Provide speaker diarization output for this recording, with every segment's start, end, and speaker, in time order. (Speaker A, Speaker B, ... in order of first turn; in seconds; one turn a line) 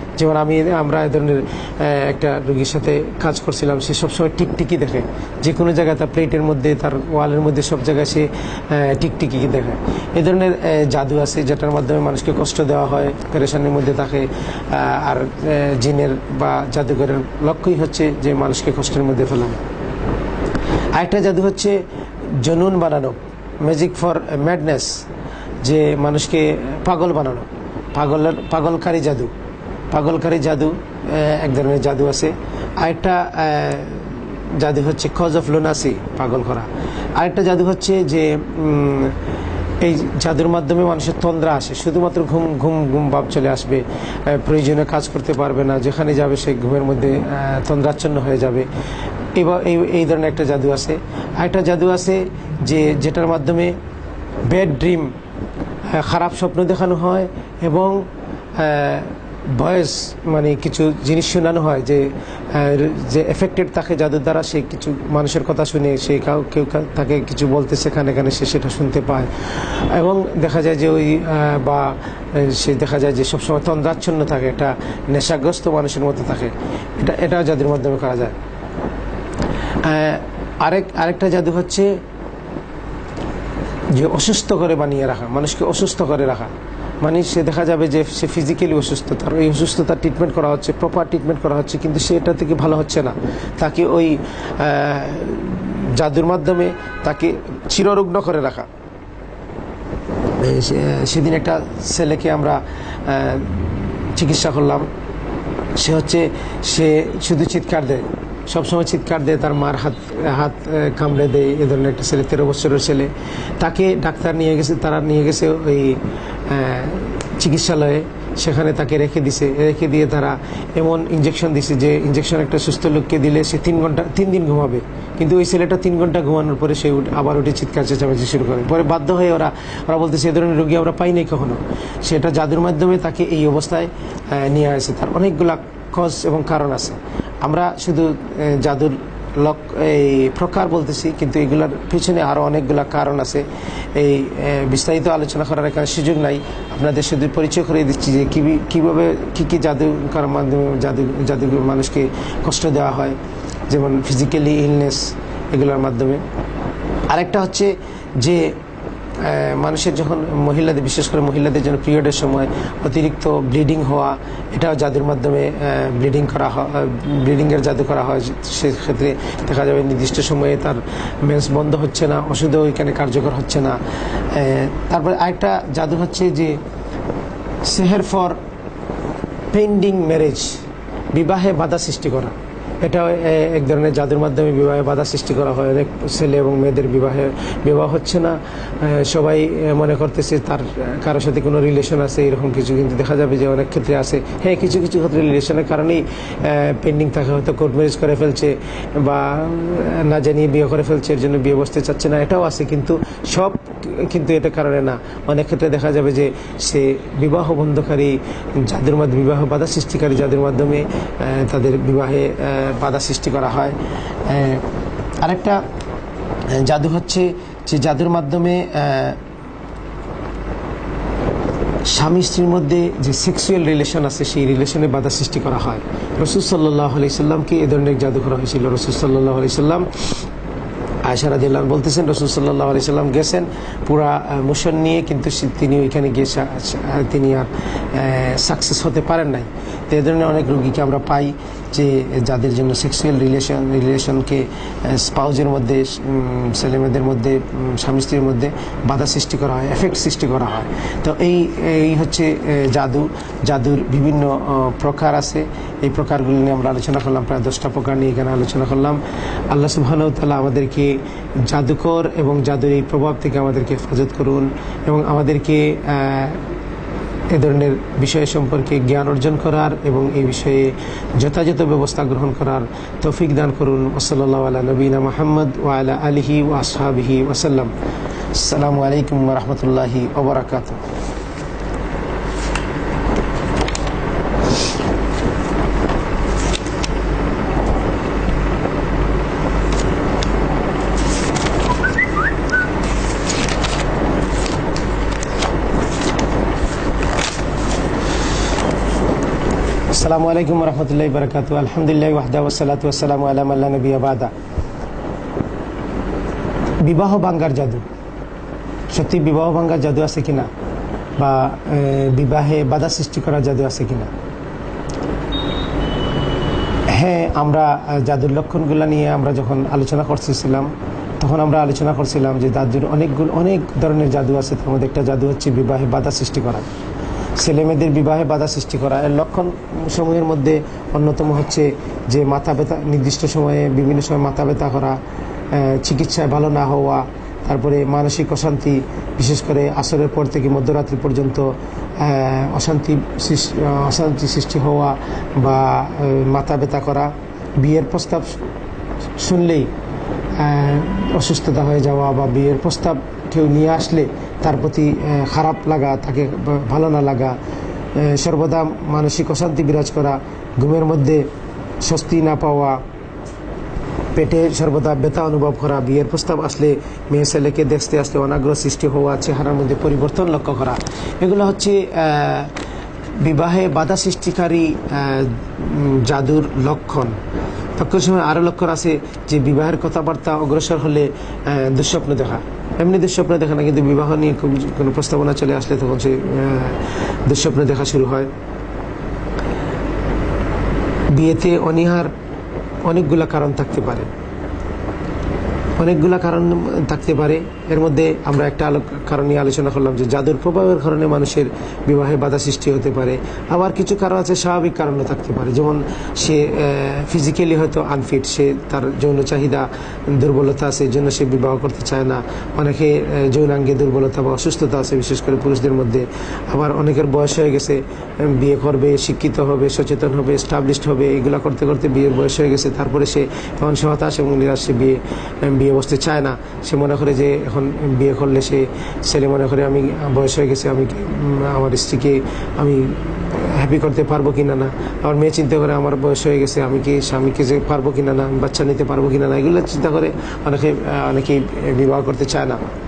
Speaker A: 0.2-19.6
Speaker A: 20.9-25.0
Speaker A: 25.6-29.3
Speaker A: 29.9-39.2
Speaker A: 39.8-48.7
Speaker A: 49.4-53.8
Speaker A: 54.5-55.1
Speaker A: 55.8-78.4
Speaker A: 79.8-81.9
Speaker A: 83.9-98.7
Speaker A: 100.4-104.9
Speaker A: 105.8-153.2
Speaker A: 153.7-156.2
Speaker A: 157.1-158.6
Speaker A: 159.2-176.6
Speaker A: 177.6-178.4
Speaker A: 179.5-214.7
Speaker A: 215.2-215.6
Speaker A: 216.5-219.2
Speaker A: 221.8-230.1
Speaker A: 231.0-266.4
Speaker A: 267.3-277.7
Speaker A: 278.3-280.8
Speaker A: 299.9-304.3
Speaker A: 306.8-307.8
Speaker A: 308.9-310.5
Speaker A: 311.2-314.1
Speaker A: 316.9-326.7
Speaker A: 327.4-335.0
Speaker A: 335.5-348.4
Speaker A: 349.2-349.7
Speaker A: 350.3-357.4
Speaker A: 357.9-361.3
Speaker A: 361.8-362.8
Speaker A: 364.1-372.5
Speaker A: 373.2-377.1
Speaker A: 377.8-388.3
Speaker A: 391.1-392.1
Speaker A: 392.8-394.1
Speaker A: 395.8-442.6